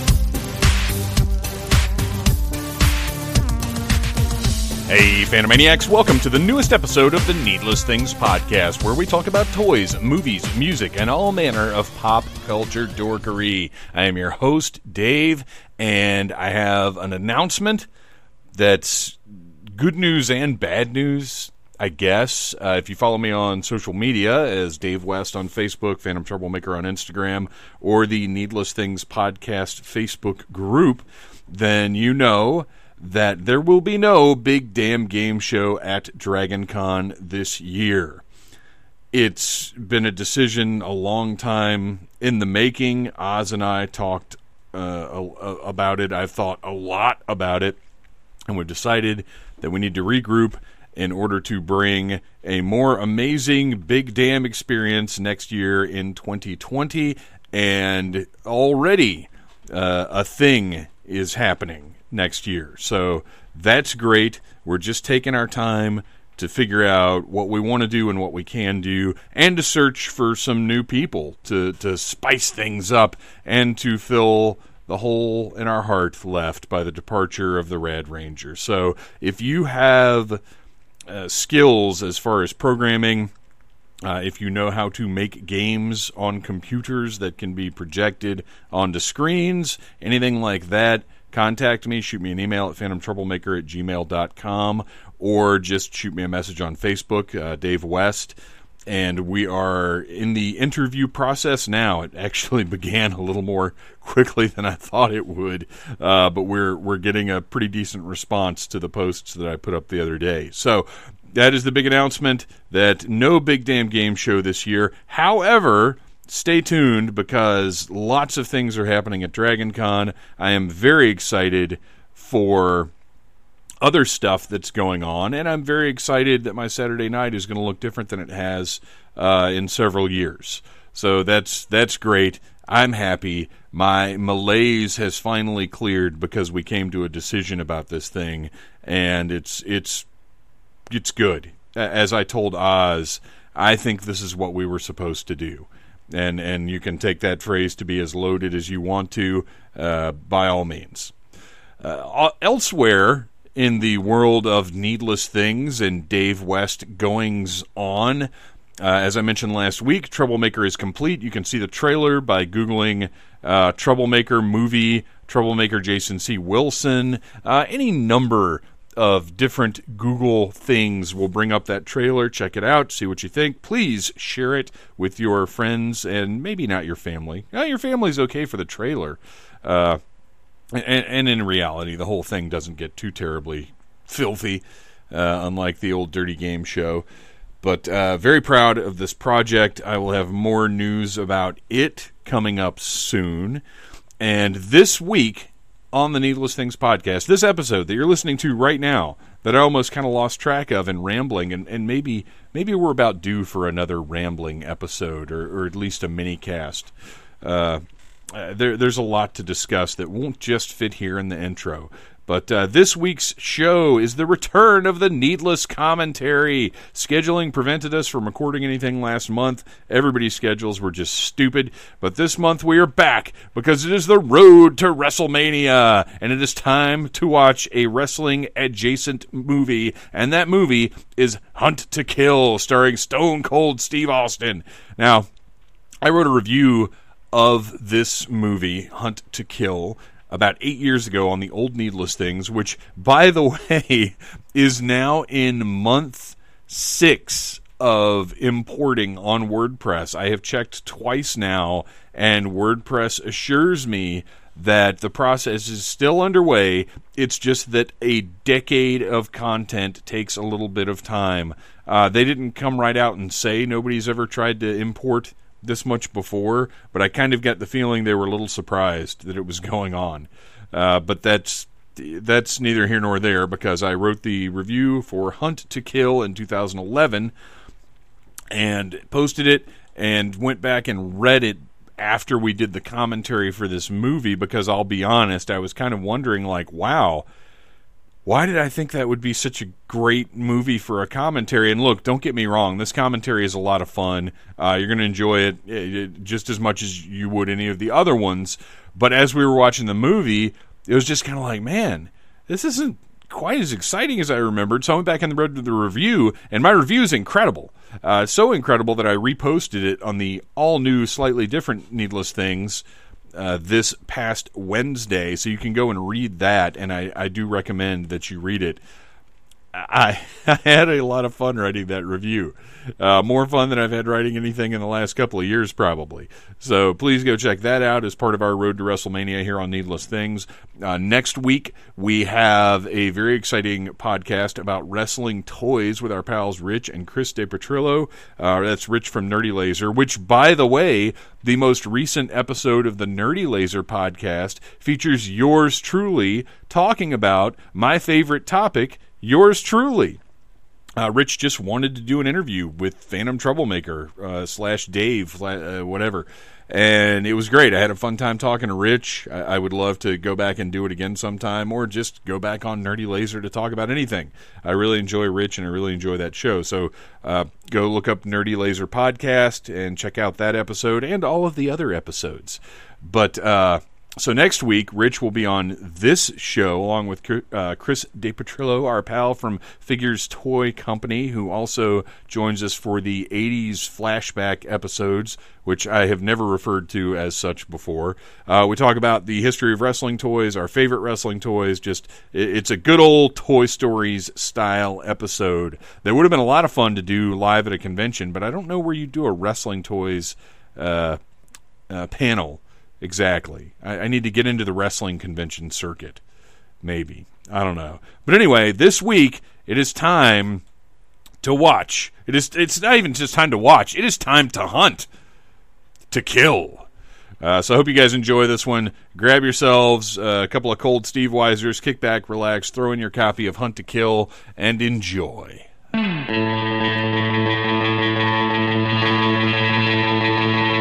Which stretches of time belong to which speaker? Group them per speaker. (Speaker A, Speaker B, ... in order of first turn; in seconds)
Speaker A: 4.9-17.9, 18.5-38.2, 39.1-47.8, 48.5-80.4, 81.1-83.3, 84.0-98.3, 98.9-122.9, 123.8-140.0, 140.9-151.1, 151.8-180.0, 180.7-187.0, 187.6-193.6, 194.2-235.3, 236.0-277.3, 278.5-287.2, 288.2-312.8, 313.3-318.8, 319.7-350.2, 351.0-401.2, 401.9-406.2, 406.8-410.6, 411.4-415.1, 416.1-416.9, 417.4-425.7